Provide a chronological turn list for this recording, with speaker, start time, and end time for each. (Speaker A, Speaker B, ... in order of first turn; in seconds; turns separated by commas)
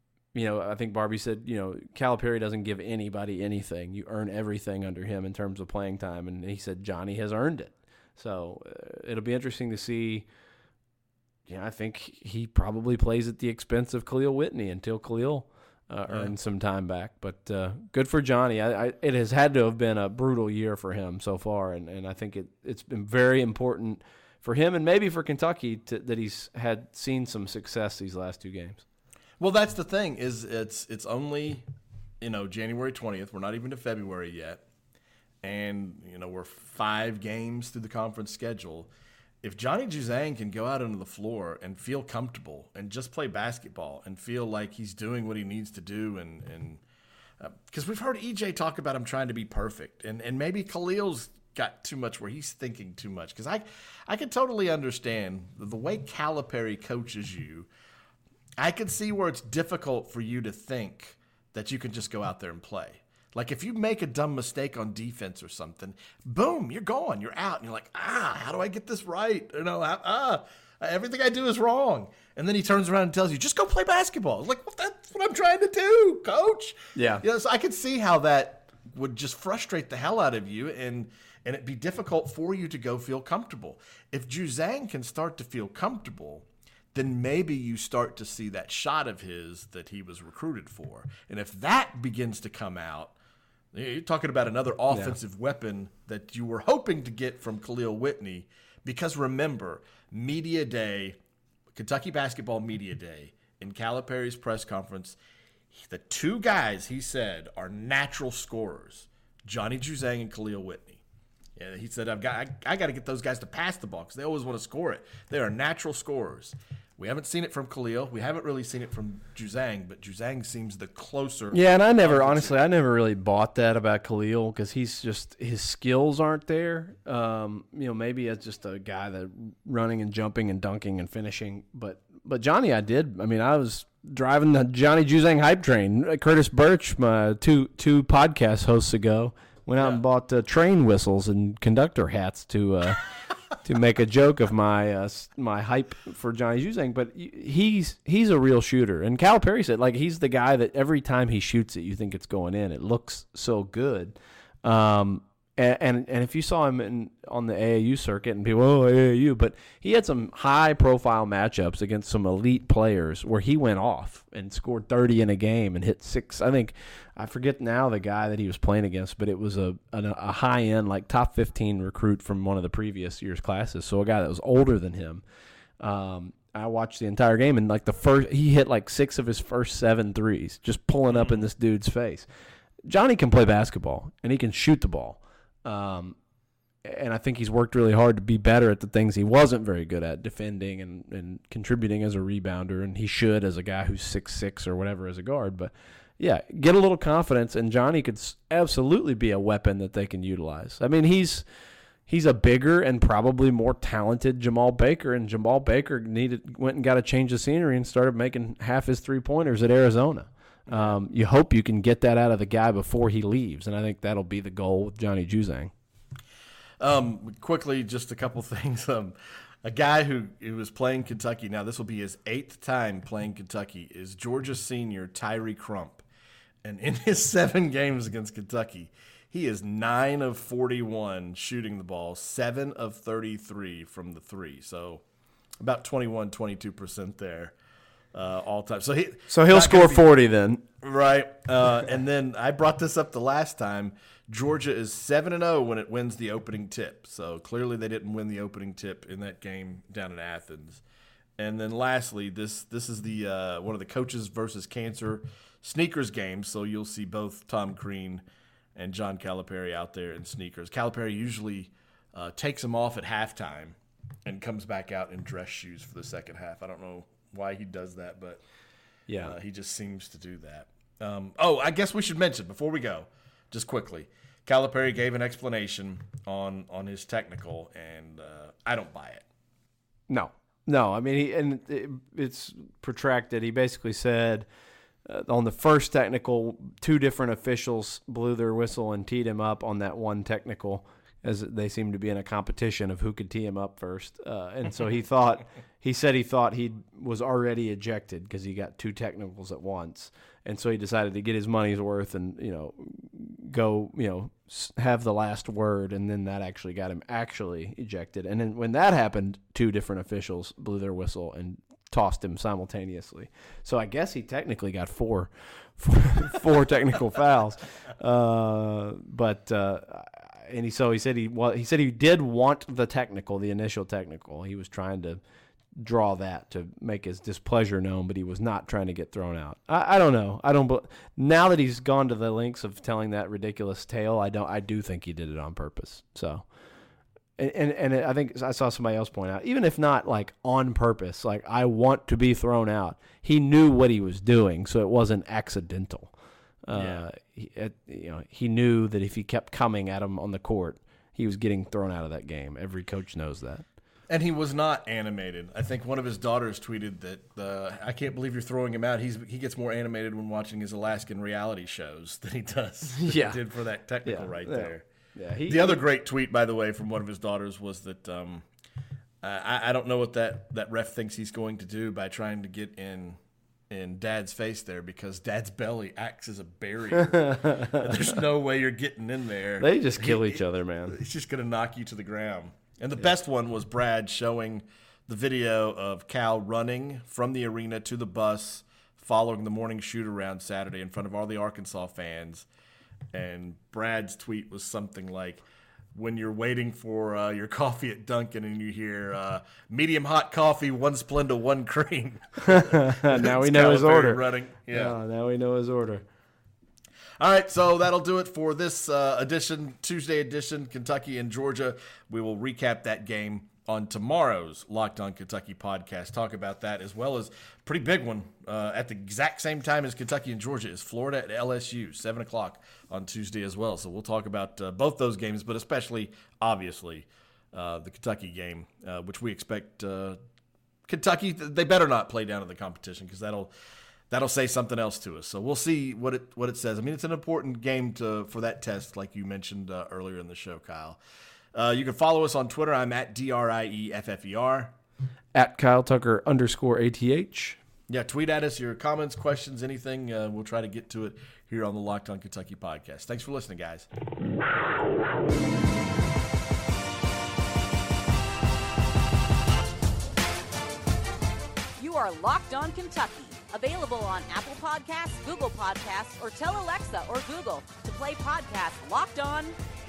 Speaker A: 0.3-10.2, Speaker A: 11.5-28.8, Speaker B: 29.4-31.6, Speaker B: 32.2-34.6, Speaker B: 35.4-38.9, Speaker B: 39.4-46.8, Speaker B: 47.4-57.7, Speaker B: 58.6-93.1, Speaker A: 76.9-77.2, Speaker B: 93.7-101.2, Speaker A: 94.9-95.1, Speaker B: 101.7-105.2, Speaker B: 105.7-111.0, Speaker B: 111.5-122.6, Speaker A: 121.5-143.0, Speaker A: 143.5-175.2, Speaker A: 175.8-182.2, Speaker B: 181.1-181.4, Speaker A: 182.9-186.2, Speaker A: 186.8-201.4, Speaker A: 202.1-215.7, Speaker B: 210.7-210.9, Speaker B: 216.8-226.0, Speaker B: 226.6-235.0, Speaker B: 235.6-237.5, Speaker B: 238.1-240.1, Speaker A: 239.3-240.6, Speaker B: 240.8-250.8, Speaker B: 251.4-258.2, Speaker B: 258.7-268.4, Speaker A: 269.1-269.4, Speaker B: 269.2-279.2, Speaker A: 280.1-284.5, Speaker A: 285.1-325.2, Speaker A: 325.8-336.4, Speaker A: 337.4-346.1, Speaker A: 346.6-353.6, Speaker B: 346.7-347.0, Speaker B: 354.1-364.8, Speaker A: 362.9-363.4, Speaker A: 364.0-365.8, Speaker B: 365.5-368.4, Speaker B: 369.2-373.2, Speaker B: 373.7-392.5, Speaker A: 377.1-377.9, Speaker A: 379.6-381.0, Speaker B: 393.1-395.4, Speaker B: 395.9-404.9, Speaker A: 402.4-406.0, Speaker B: 407.2-430.2, Speaker B: 430.9-433.5, Speaker B: 434.1-441.0, Speaker B: 441.5-444.7, Speaker A: 445.3-447.6, Speaker B: 447.9-453.9, Speaker C: 461.8-469.6